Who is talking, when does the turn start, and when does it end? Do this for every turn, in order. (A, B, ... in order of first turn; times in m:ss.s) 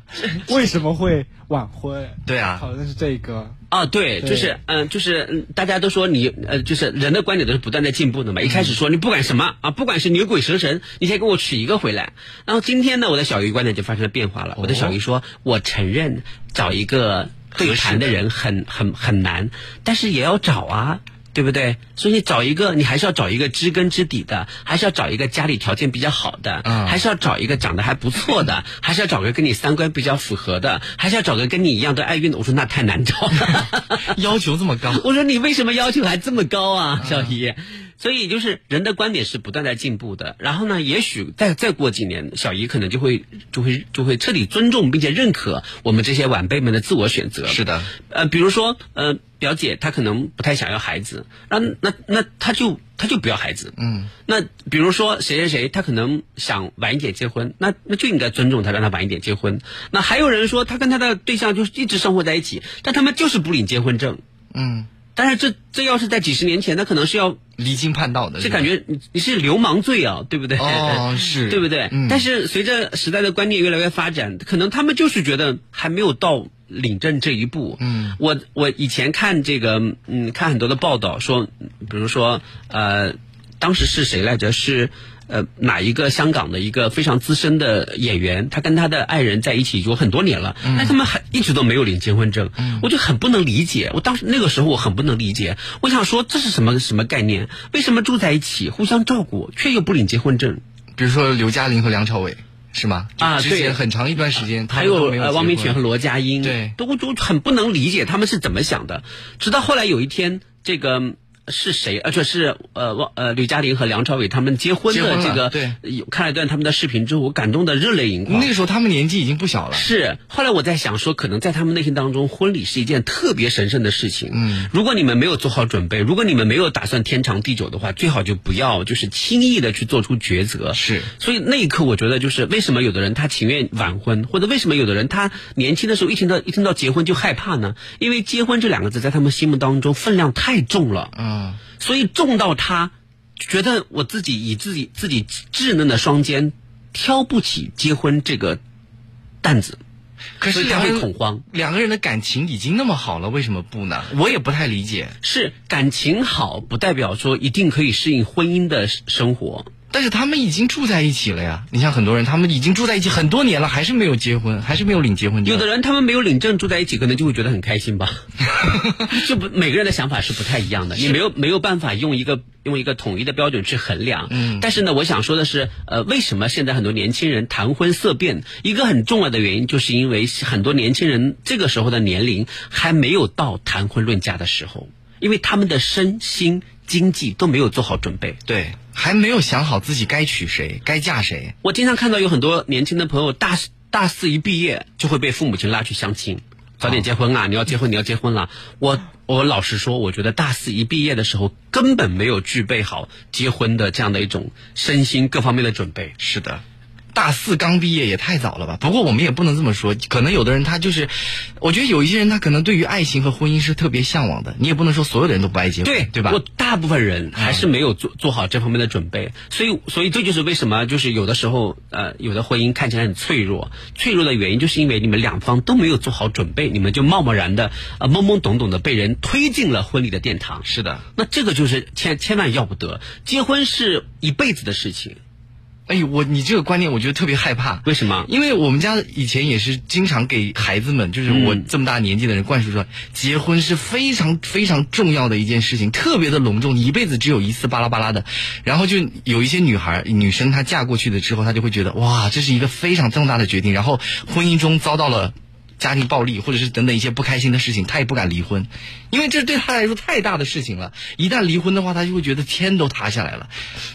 0:00.4-0:03.6 A
0:02.3-0:02.6 B
0:03.7-0:34.1 C
0:04.2-0:04.5 A
0:08.4-0:08.8 B
0:14.6-0:15.0 B
0:17.6-0:18.2 B
0:26.6-0:27.0 B
0:34.1-0:35.0 B
0:34.9-0:53.7 C
0:37.0-0:37.4 B
0:47.5-0:47.9 B
0:53.8-0:54.1 B
0:54.3-1:04.2 C
1:04.5-1:04.9 B
1:05.2-1:07.4 C
1:07.6-1:08.7 B
1:08.4-1:40.6 C
1:10.6-1:12.2 B
1:17.8-1:18.2 B
1:30.6-1:31.0 B
1:32.6-1:32.9 B
1:41.0-1:45.8 B
1:43.2-1:43.8 C
1:44.7-1:58.5 C
1:46.4-1:46.8 B
1:54.9-1:55.8 B
1:58.3-1:59.9 B
1:59.7-2:21.1 C
2:04.3-2:04.7 B
2:10.7-2:11.1 B
2:21.2-2:21.6 B
2:21.8-2:28.6 C
2:29.4-2:29.8 C
2:30.4-2:35.2 B
2:30.5-2:31.4 C
2:35.2-2:39.7 C
2:39.9-2:45.7 B
2:45.4-2:48.2 C
2:48.7-2:49.0 B
2:49.1-3:08.4 C
2:54.3-2:54.7 B
3:08.5-3:11.5 B
3:11.6-3:26.2 C
3:26.2-3:26.6 B
3:27.1-3:36.4 B
3:35.8-3:55.2 C
3:37.4-3:37.7 B
3:50.6-3:51.0 B
3:55.9-4:23.5 B
3:57.9-3:58.3 C
4:01.3-4:01.7 C